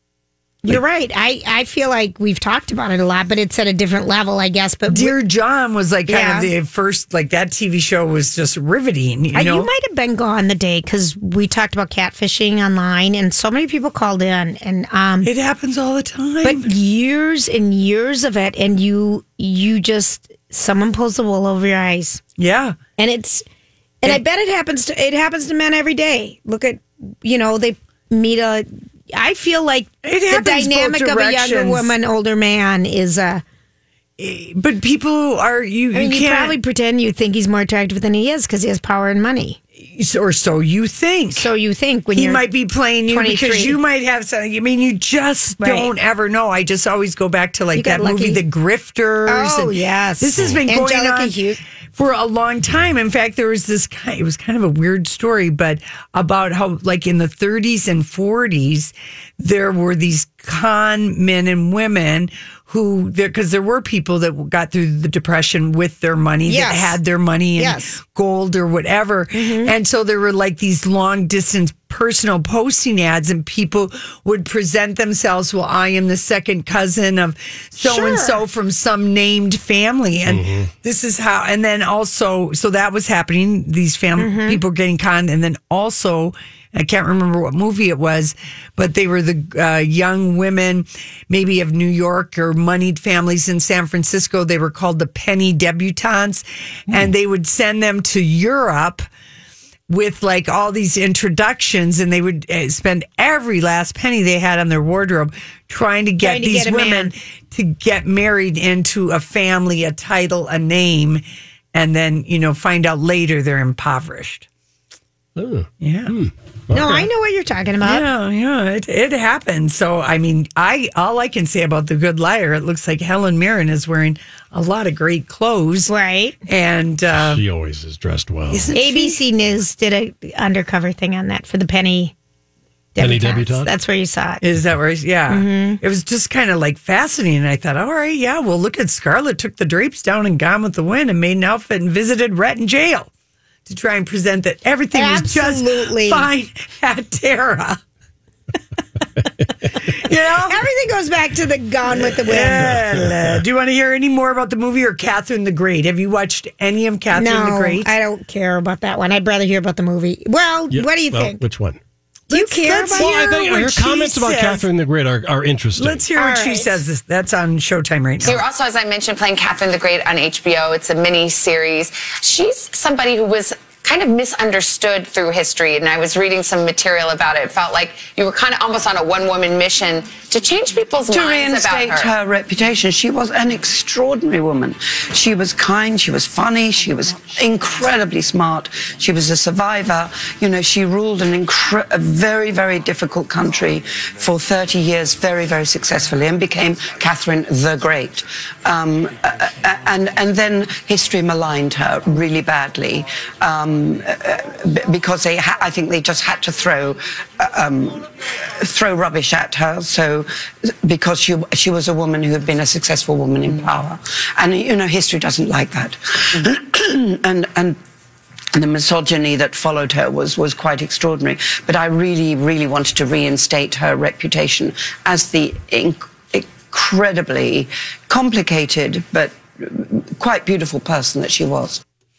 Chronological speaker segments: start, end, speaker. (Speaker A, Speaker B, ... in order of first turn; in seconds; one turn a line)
Speaker A: 0.6-5.2
Speaker B: 4.9-9.7
Speaker A: 6.1-6.5
Speaker A: 9.3-15.3
Speaker B: 15.2-16.7
Speaker A: 16.4-22.2
Speaker B: 22.4-22.8
Speaker A: 23.0-23.4
Speaker A: 24.0-33.4
Speaker B: 30.0-31.9
Speaker B: 34.2-36.5
Speaker A: 35.9-39.6
Speaker B: 39.8-41.5
Speaker A: 41.3-42.4
Speaker B: 42.1-51.4
Speaker A: 43.1-43.8
Speaker A: 45.6-45.9
Speaker A: 47.7-48.4
Speaker A: 49.3-51.6
Speaker B: 51.9-99.0
Speaker A: 66.5-67.0
Speaker A: 67.6-68.0
Speaker A: 69.3-69.7
Speaker A: 77.8-78.4
Speaker C: 80.3-80.7
Speaker A: 84.2-84.6
Speaker B: 99.9-111.2
Speaker A: 106.2-107.1
Speaker B: 111.7-114.5
Speaker C: 115.3-116.7
Speaker B: 115.8-116.2
Speaker A: 116.7-118.0
Speaker B: 116.7-117.0
Speaker B: 117.8-125.9
Speaker A: 125.9-126.4
Speaker B: 126.5-127.4
Speaker C: 127.1-128.7
Speaker B: 128.5-129.2
Speaker A: 128.7-132.1
Speaker A: 132.9-134.4
Speaker C: 133.0-133.7
Speaker B: 134.4-143.1
Speaker A: 135.3-135.8
Speaker B: 143.7-147.8
Speaker A: 144.9-146.3
Speaker B: 149.7-150.6
Speaker A: 150.4-152.8
Speaker B: 151.9-157.9
Speaker C: 152.9-153.4
Speaker A: 157.1-161.4
Speaker C: 160.7-161.8
Speaker B: 162.3-164.7
Speaker A: 162.3-163.2
Speaker C: 162.9-166.0
Speaker B: 165.8-168.4
Speaker A: 166.2-166.8
Speaker D: 168.2-182.1
Speaker E: 181.1-217.8
Speaker E: 218.5-231.8